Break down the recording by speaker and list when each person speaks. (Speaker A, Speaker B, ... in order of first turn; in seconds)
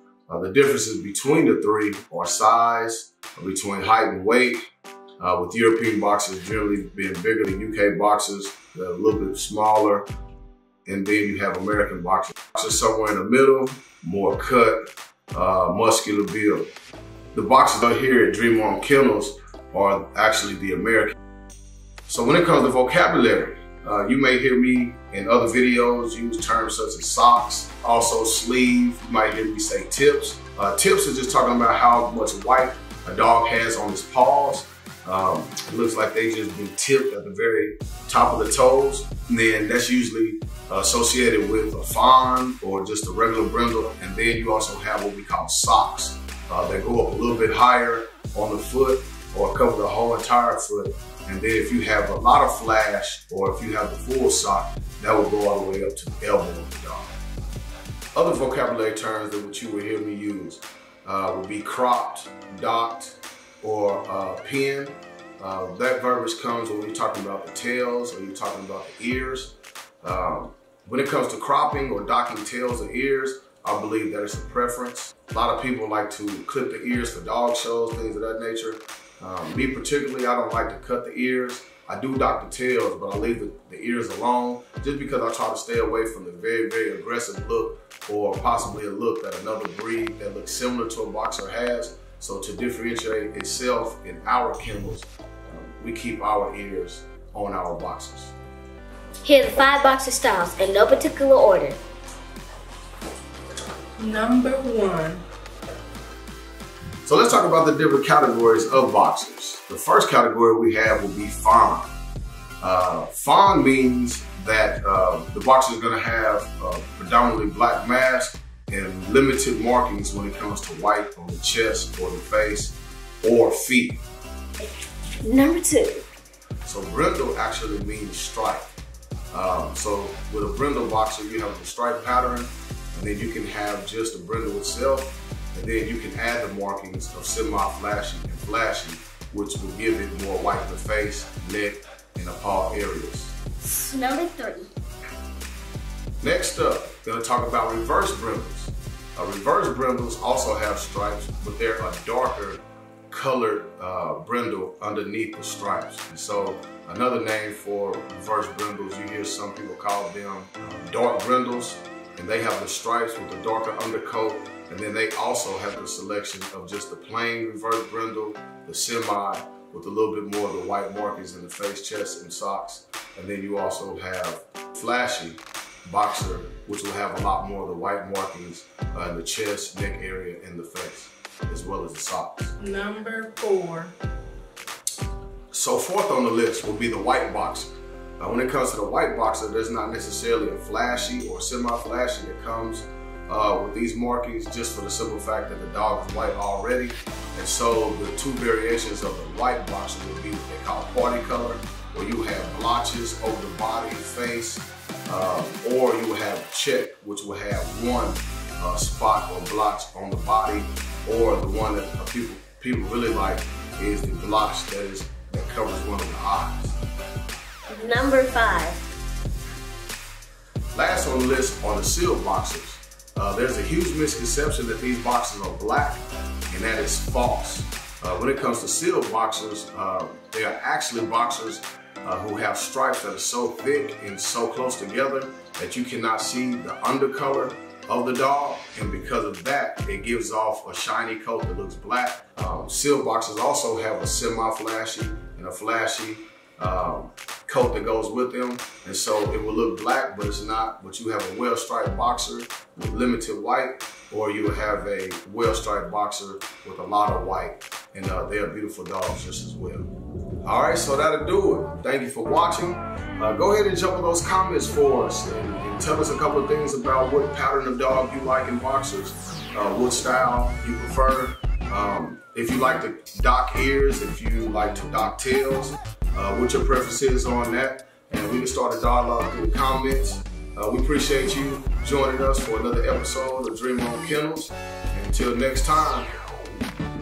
Speaker A: 0.3-4.6, 5.2-10.1, 10.8-14.8, 15.3-16.7, 17.3-21.1, 22.1-57.1, 58.1-98.3, 107.0-111.8, 112.6-124.0, 126.6-128.7, 129.3-143.3, 146.2-182.5, 185.5-216.8, 220.7-259.9, 260.4-286.1
Speaker B: 99.2-101.8, 125.2-126.0, 143.6-144.7, 217.7-218.8
Speaker C: 104.0-105.2, 182.6-183.9